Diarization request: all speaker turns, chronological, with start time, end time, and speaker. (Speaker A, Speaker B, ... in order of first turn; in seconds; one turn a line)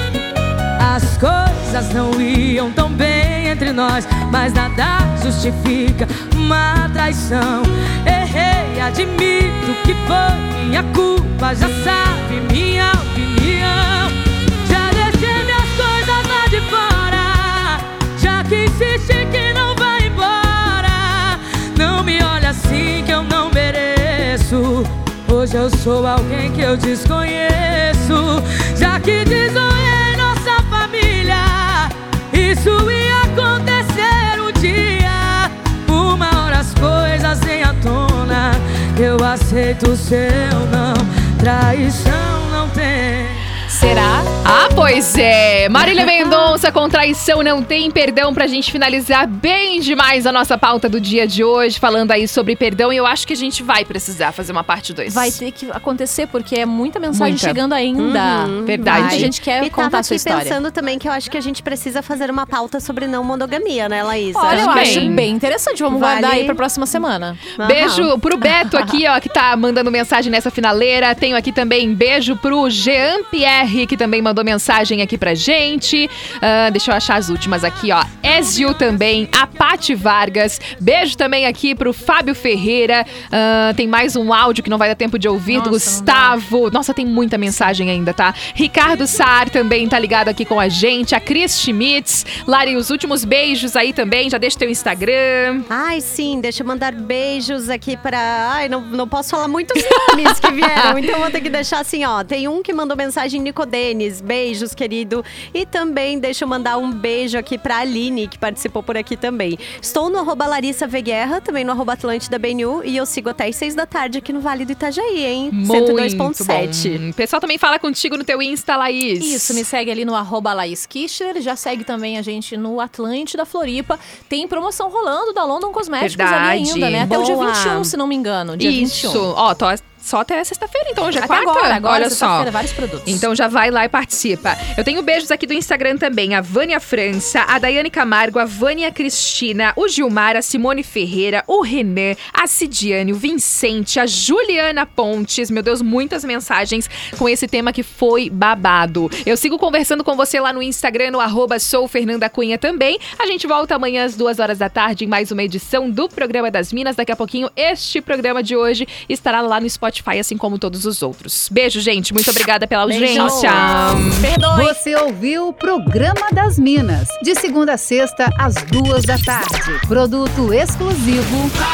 Speaker A: 0.8-43.5
Speaker B: 43.8-44.2
Speaker C: 43.9-44.2
Speaker D: 44.4-55.4
Speaker C: 55.1-60.5
Speaker D: 57.1-57.6
Speaker E: 58.0-65.3
Speaker D: 58.6-59.3
Speaker C: 64.3-67.4
Speaker D: 64.5-65.2
Speaker E: 65.9-66.6
Speaker E: 67.6-68.1
Speaker D: 67.6-95.7
Speaker C: 85.5-86.4
Speaker E: 95.7-117.0
Speaker D: 99.8-101.0
Speaker D: 115.5-119.6
Speaker C: 119.2-129.3
Speaker D: 126.0-127.9
Speaker E: 127.1-127.6
Speaker D: 128.6-132.5
Speaker C: 131.2-133.3
Speaker D: 133.1-164.3
Speaker C: 162.9-164.8
Speaker E: 163.1-163.4
Speaker B: 164.4-171.5